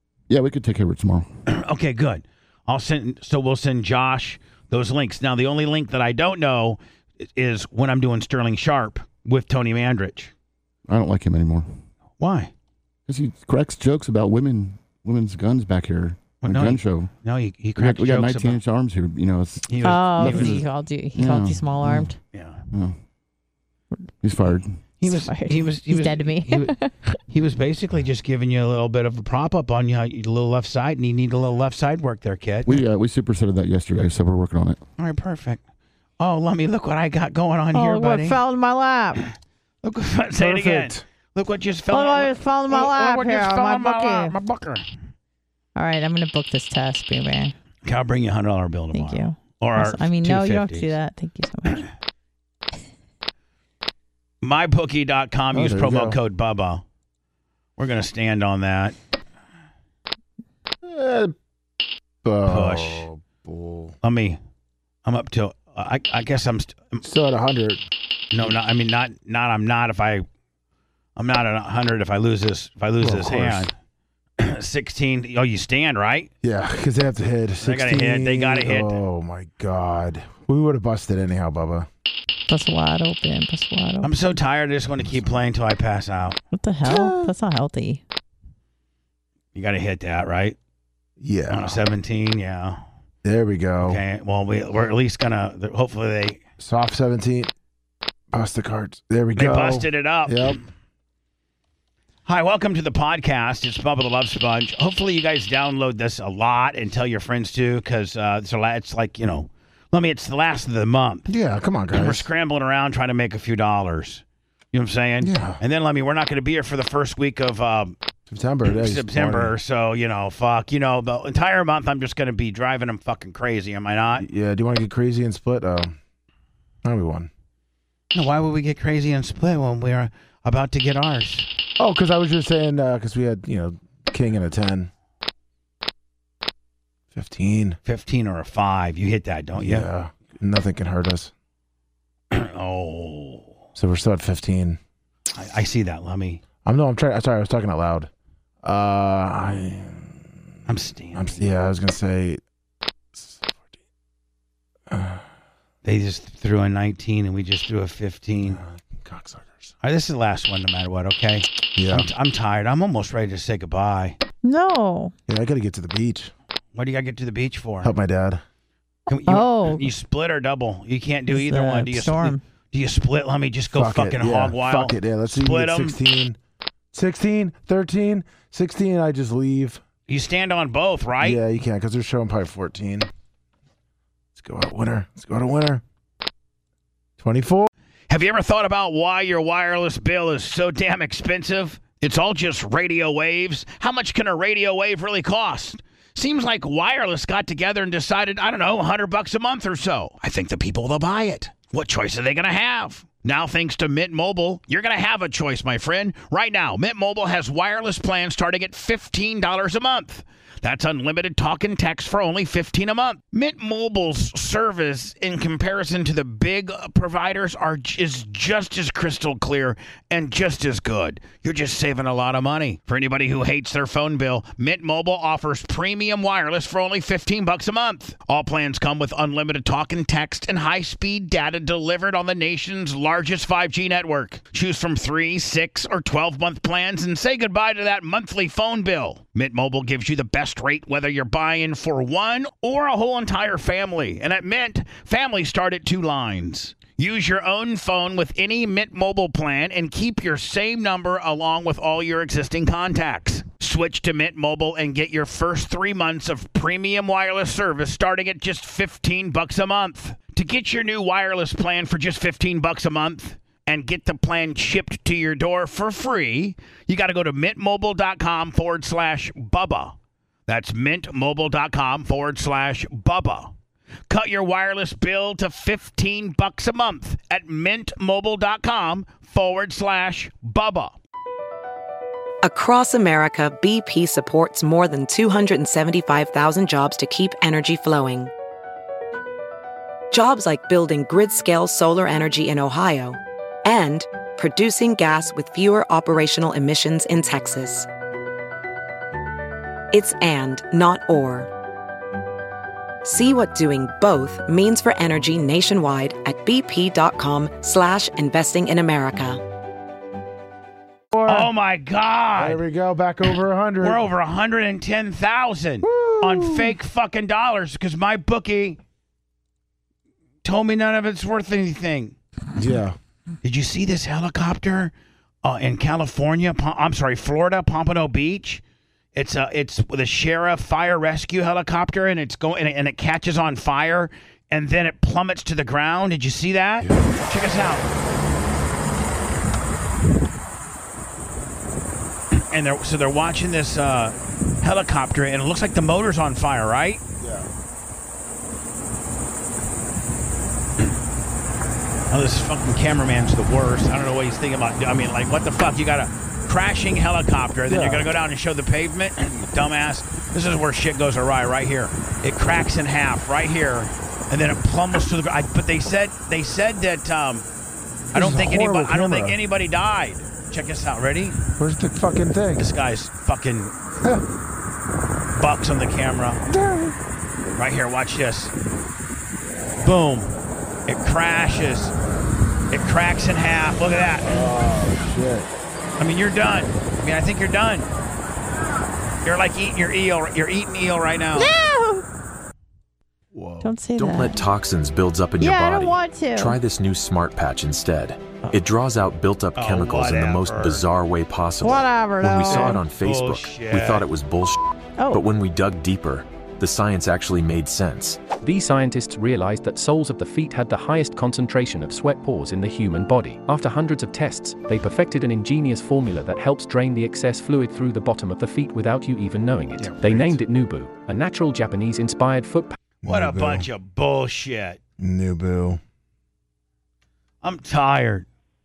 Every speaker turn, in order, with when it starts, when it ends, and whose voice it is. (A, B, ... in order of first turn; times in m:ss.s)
0:00.3-0:01.3 A
0:01.5-0:10.3 B
0:10.9-0:11.7 A
0:12.2-0:12.5 B
0:13.1-0:17.1 A
0:16.4-0:18.6 B
0:17.8-0:22.2 A
0:19.7-0:20.6 B
0:19.8-0:22.2 C
0:22.3-0:22.6 B
0:22.7-0:23.0 A
0:24.2-0:24.8 A
0:25.0-0:26.8 B
0:25.0-0:27.2 C
0:27.3-0:32.8 B
0:32.6-0:34.8 A
0:35.0-0:35.6 B
0:36.2-0:38.4 B
0:37.7-0:39.2 C
0:39.8-0:44.9 B
0:40.4-0:41.0 D
0:41.9-0:44.4 C
0:45.8-0:47.5 C
0:47.8-0:50.9 B
0:48.9-0:51.9 C
0:54.4-0:56.8 B
0:55.5-0:56.2 D
0:57.8-0:59.0 B
1:00.8-1:01.4 D
1:02.2-1:03.9 D
1:02.5-1:03.1 B
1:04.0-1:04.4 B
1:05.0-1:07.0 B
1:07.0-1:07.8 D
1:08.3-1:10.2 B
1:11.2-1:13.7 B
1:13.0-1:13.7 D
1:14.4-1:16.3 B
1:16.4-1:21.9 D
1:17.6-1:19.0 B
1:22.5-1:24.1 C
1:24.0-1:26.4 B
1:25.0-1:25.4 D
1:26.5-1:28.0 C
1:26.8-1:27.3 D
1:29.5-1:30.6 B
1:31.2-1:31.9 D
1:31.5-1:32.8 B
1:33.2-1:34.0 D
1:33.8-1:36.4 B
1:36.6-1:37.5 D
1:38.3-1:40.6 D
1:39.4-1:40.6 B
1:42.2-1:51.3 B
1:51.3-1:52.2 D
1:51.9-1:58.0 B
1:55.2-1:55.6 D
1:58.3-1:59.5 D
1:58.6-2:04.3 B
2:04.2-2:06.0 D
2:06.8-2:07.3 D
2:08.1-2:11.5 B
2:11.8-2:14.9 D
2:17.1-2:17.8 D
2:17.8-2:19.9 B
2:19.6-2:21.3 D
2:22.3-2:23.5 B
2:23.8-2:24.8 D
2:25.3-2:26.4 B
2:26.6-2:28.1 D
2:28.6-2:30.4 D
2:30.6-2:31.4 B
2:31.1-2:32.4 D
2:33.1-2:33.7 D
2:34.9-2:35.2 D
2:35.8-2:38.6 B
2:38.4-2:39.7 D
2:39.8-2:44.2 B
2:41.8-2:42.1 D
2:44.4-2:45.1 C
2:45.3-2:46.3 D
2:46.8-2:47.9 B
2:47.8-2:48.4 D
2:49.1-2:56.0 B
2:49.1-2:49.9 C
2:51.3-2:52.4 C
2:53.7-2:56.4 D
2:56.9-2:59.8 D
3:00.1-3:01.4 B
3:01.2-3:03.1 D
3:04.4-3:05.8 D
3:07.2-3:07.7 D
3:08.1-4:30.0 B
4:30.5-4:33.5 B
4:34.1-4:41.0 B
4:42.4-4:48.3 E
4:50.1-4:57.9 E
4:59.9-5:01.5 E
5:03.0-5:09.4 E
5:11.1-5:11.5 D
5:11.3-5:12.6 B
5:12.4-5:14.0 D
5:13.8-5:18.8 B
5:15.8-5:16.7 D
5:20.4-5:22.2 B
5:22.6-5:23.0 D
5:23.4-5:28.6 B
5:29.1-5:37.8 B
5:42.3-5:47.0 B
5:47.2-5:47.5 D
5:52.1-6:07.5 B
5:57.7-5:58.1 D
6:08.1-6:09.4 D
6:08.1-6:11.4 B
6:11.6-6:12.6 D
6:12.6-6:13.7 B
6:15.4-6:16.4 B
6:16.5-6:17.0 D
6:17.5-6:18.5 B
6:19.8-6:20.3 B
6:20.9-6:21.9 B
6:22.7-6:24.4 B
6:24.2-6:25.5 D
6:26.0-6:27.9 B
6:29.2-6:31.5 B
6:31.4-6:32.0 C
6:33.3-6:33.7 D
6:33.6-6:34.4 C
6:34.0-6:48.3 F
6:35.4-6:36.6 C
6:39.6-6:40.9 B
6:41.6-6:42.8 C
6:42.5-6:44.0 B
6:45.0-6:45.2 C
6:48.4-7:02.8 G
6:59.8-7:00.3 B
7:03.0-7:03.7 D
7:03.1-7:04.8 B
7:05.0-7:05.8 D
7:07.4-7:08.3 B